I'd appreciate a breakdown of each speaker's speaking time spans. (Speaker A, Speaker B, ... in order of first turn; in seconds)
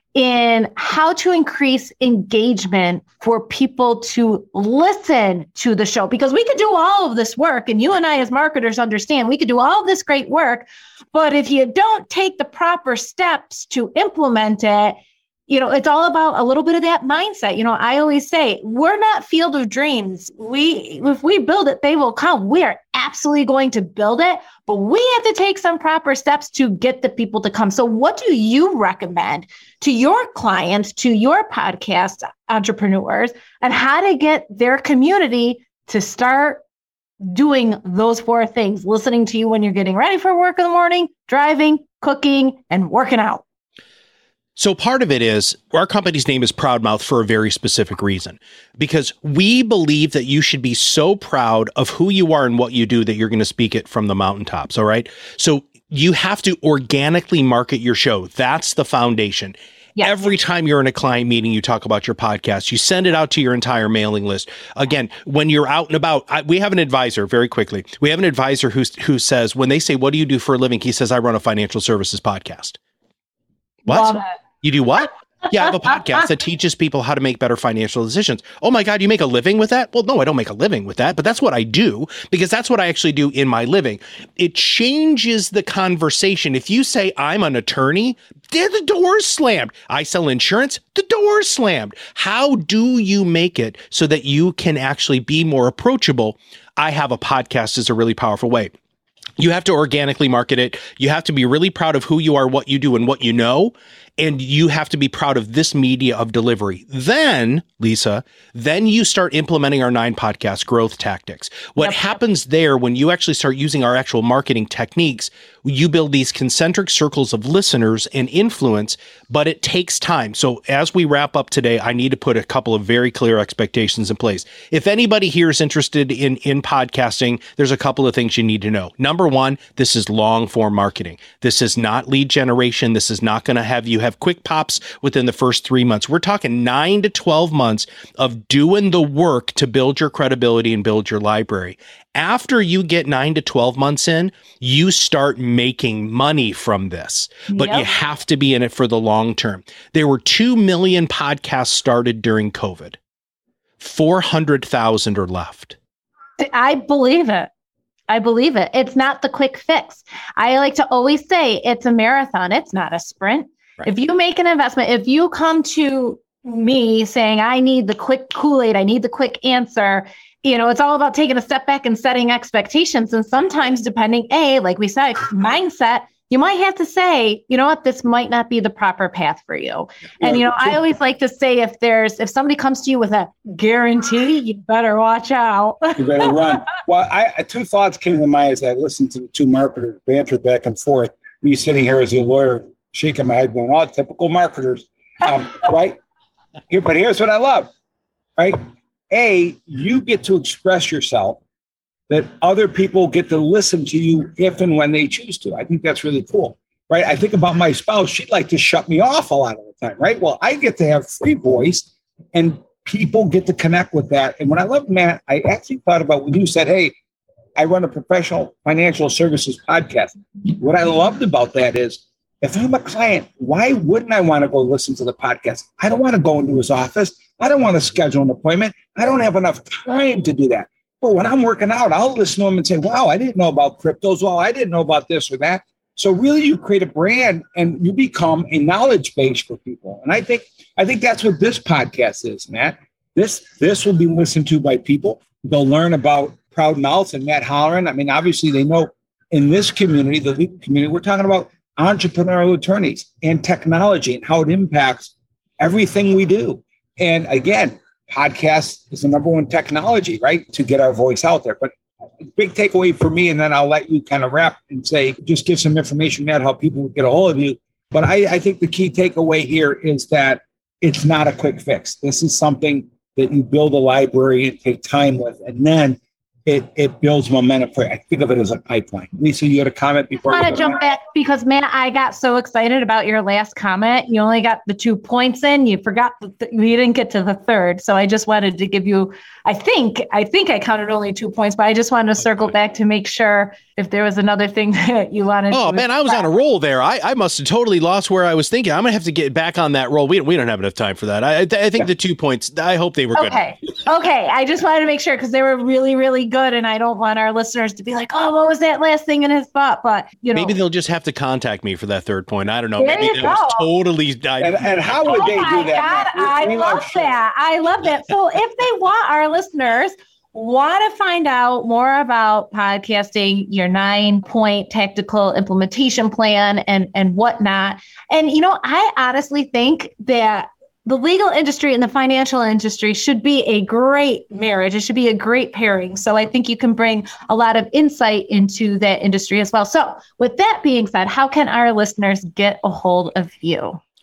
Speaker A: 0.1-36.6, 37.2-43.4, 73.9-74.2, 147.5-147.9, 156.4-157.5, 158.1-186.3, 280.3-296.2, 303.1-310.6, 312.8-313.7, 315.1-343.8
Speaker B: 44.6-72.8, 73.9-98.7, 99.4-153.0, 153.8-155.8, 295.5-303.4, 310.3-315.5
Speaker C: 180.2-180.8, 186.0-196.0, 196.7-197.7, 198.4-201.4, 202.1-216.9, 217.6-280.8, 314.4-317.1